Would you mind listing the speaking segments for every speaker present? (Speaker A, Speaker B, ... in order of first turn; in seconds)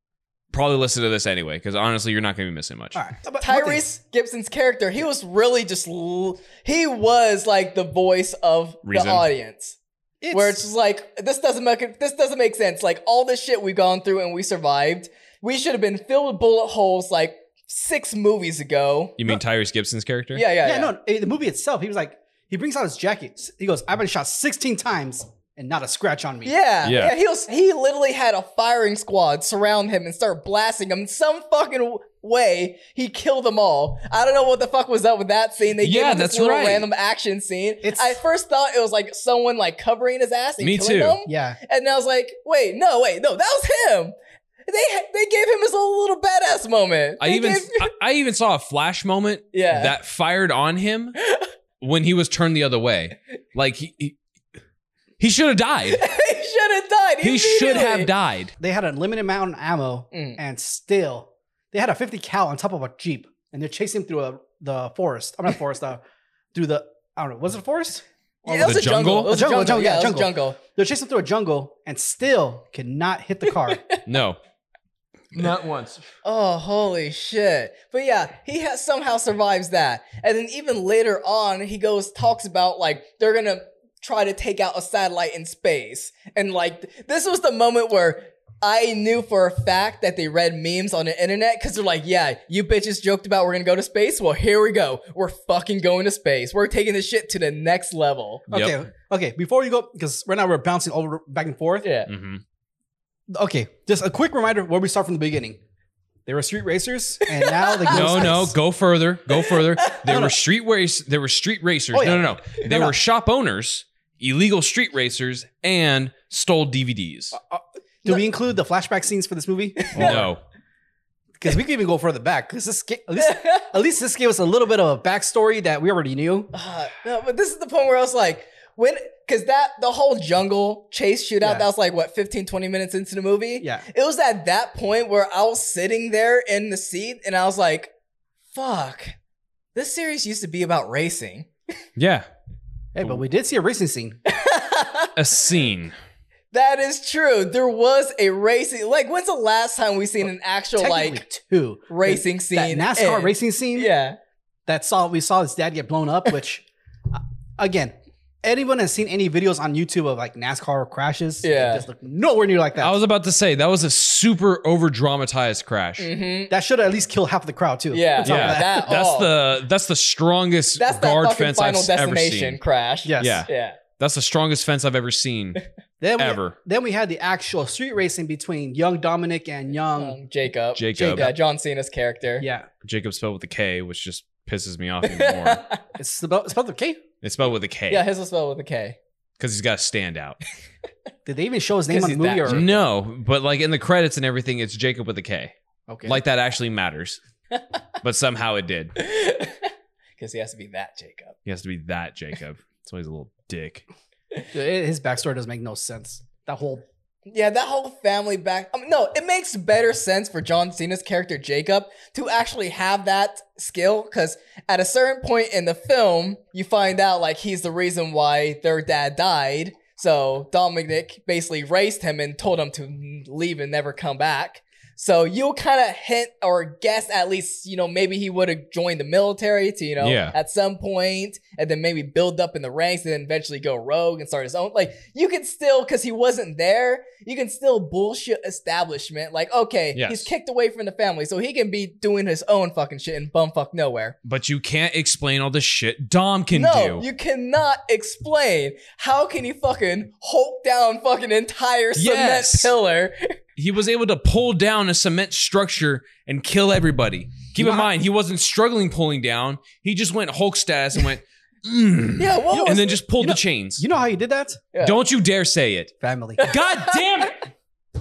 Speaker A: 0.5-3.0, 8.8-9.2, 19.2-20.4, 26.8-27.1, 35.8-36.9, 40.6-41.2, 47.2-51.1, 51.8-54.2, 55.2-56.0, 57.2-58.5, 68.6-69.3, 74.0-74.4, 75.3-76.0, 98.5-98.8, 102.1-102.4, 107.9-117.4, 119.9-120.4, 142.0-142.3, 145.2-145.9, 162.8-166.1, 168.2-172.6, 173.2-175.6, 176.2-176.6, 180.7-181.3, 182.8-185.6, 187.2-188.0, 189.4-190.4, 192.5-197.2, 198.0-198.9, 201.4-203.8, 230.0-230.3, 239.9-240.3, 244.2-247.0, 251.9-252.7, 253.6-263.8, 264.8-267.4
Speaker B: 2.9-3.8, 10.2-10.6, 20.6-26.5, 37.8-38.2, 41.2-41.6, 58.6-66.0, 66.5-73.8, 98.5-101.9, 103.3-105.6, 106.2-108.5, 110.0-110.4, 111.9-113.0, 117.3-120.3, 121.4-126.5, 131.4-131.7, 133.6-133.8, 142.9-144.2, 150.8-153.9, 154.7-162.9, 166.5-168.9, 173.0-173.4, 176.0-180.2, 180.9-181.3, 182.4-182.7, 186.0-187.0, 191.2-192.7, 195.9-196.2, 204.5-206.8, 257.6-257.9, 262.5-264.6, 266.0-266.5
Speaker C: 3.4-9.8, 10.3-19.2, 20.3-20.9, 26.4-44.1, 44.7-47.9, 49.5-49.9, 51.2-51.5, 55.9-58.1, 60.1-60.4, 68.4-70.6, 76.2-98.4, 101.8-102.1, 107.3-108.3, 119.8-120.2, 123.2-123.7, 126.5-137.9, 138.5-139.1, 139.7-141.5, 144.3-145.1, 146.5-151.2, 151.9-154.2, 161.4-161.8, 166.0-166.5, 167.9-169.3, 170.8-173.8, 179.9-182.4, 185.0-185.8, 187.9-189.0, 191.9-192.8, 199.0-199.7, 200.2-201.3, 207.3-244.2, 246.5-253.4, 262.2-262.9, 264.7-265.0, 266.4-267.3